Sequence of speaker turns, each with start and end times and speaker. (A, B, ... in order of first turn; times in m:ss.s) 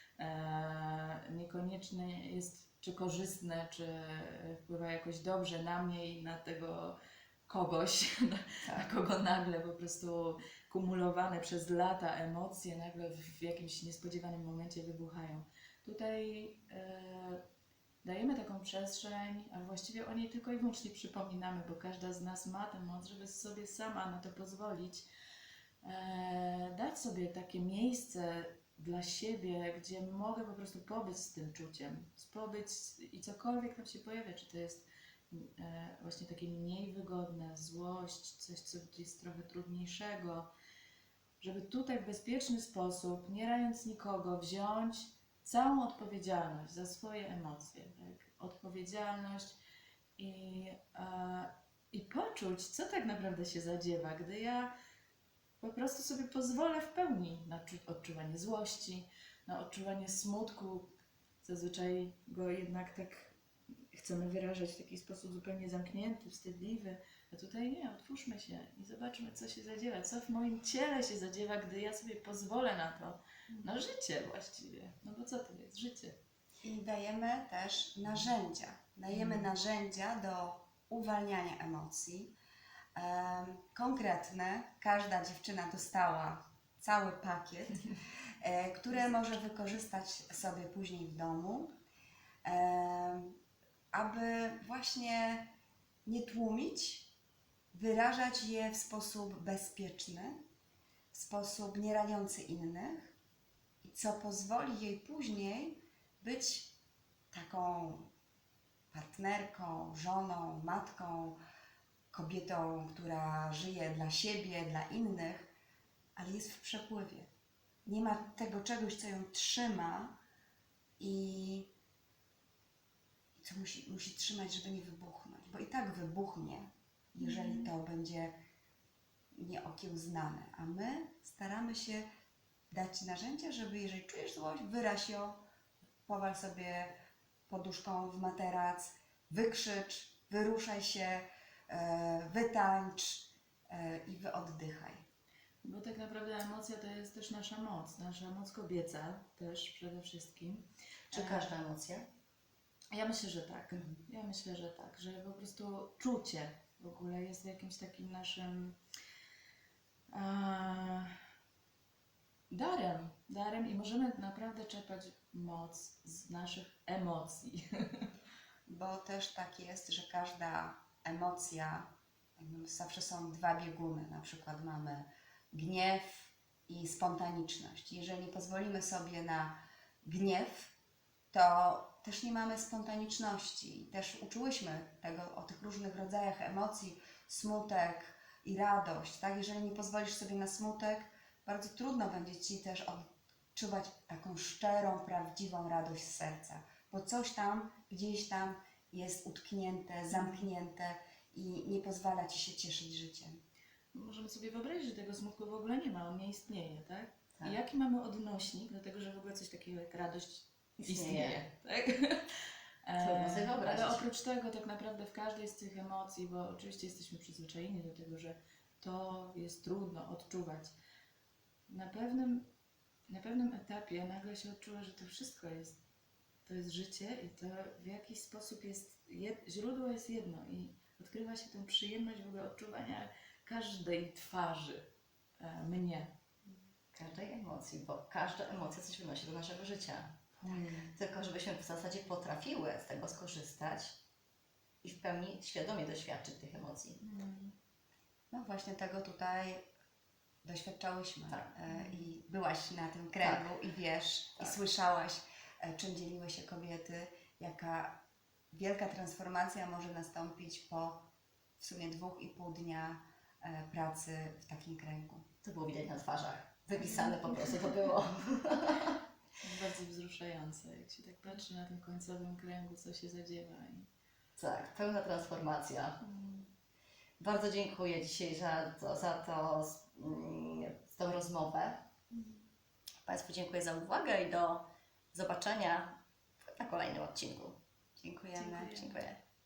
0:00.2-0:07.0 A
0:07.5-0:17.4 A
0:08.6-0:08.9 B
0:18.0-0:25.1 A
0:25.8-0:40.5 A
0:41.4-0:49.6 A
0:50.2-0:54.7 A
0:55.6-1:00.9 A
1:01.4-1:03.3 A
1:03.9-1:16.1 A
1:16.6-1:22.3 C
1:19.1-1:19.5 A
1:22.9-1:27.9 C
1:28.4-1:31.7 C
1:32.4-1:33.4 C
1:33.9-1:35.5 C
1:36.0-1:37.1 C
1:37.7-1:40.4 C
1:41.1-1:43.1 C
1:43.8-1:46.7 C
1:47.3-1:48.1 C
1:48.9-1:51.4 C
1:52.1-1:55.5 C
1:56.2-1:57.3 C
1:57.8-2:00.2 C
2:01.0-2:01.7 C
2:03.4-2:08.3 C
2:07.2-2:07.7 A
2:09.3-2:12.0 C
2:12.7-2:15.4 C
2:16.1-2:16.9 C
2:17.5-2:25.0 C
2:25.6-2:31.5 A
2:31.1-2:32.0 B
2:32.9-2:38.8 A
2:40.1-2:41.1 A
2:42.5-2:48.1 A
2:48.7-3:00.7 C
3:01.3-3:13.0 C
3:13.5-3:23.4 C
3:20.1-3:20.5 A
3:23.9-3:40.7 A
3:30.8-3:31.5 B
3:33.0-3:34.0 B
3:41.7-3:42.5 A
3:43.1-3:45.8 A
3:46.4-3:54.9 A
3:55.4-3:56.1 A
3:56.9-4:00.2 B
4:00.4-4:01.0 A
4:00.9-4:04.0 B
4:04.8-4:07.0 B
4:07.0-4:07.5 A
4:08.3-4:09.6 C
4:10.4-4:18.0 C
4:11.7-4:12.1 A
4:13.2-4:13.6 B
4:18.5-4:21.0 C
4:21.6-4:25.2 C
4:25.4-4:29.0 B
4:26.8-4:27.7 A
4:29.4-4:33.9 A
4:34.4-4:36.0 B
4:36.0-4:36.5 A
4:37.2-4:41.8 B
4:43.0-4:47.6 B
4:48.0-4:49.0 C
4:48.4-4:48.9 A
4:48.7-4:49.2 B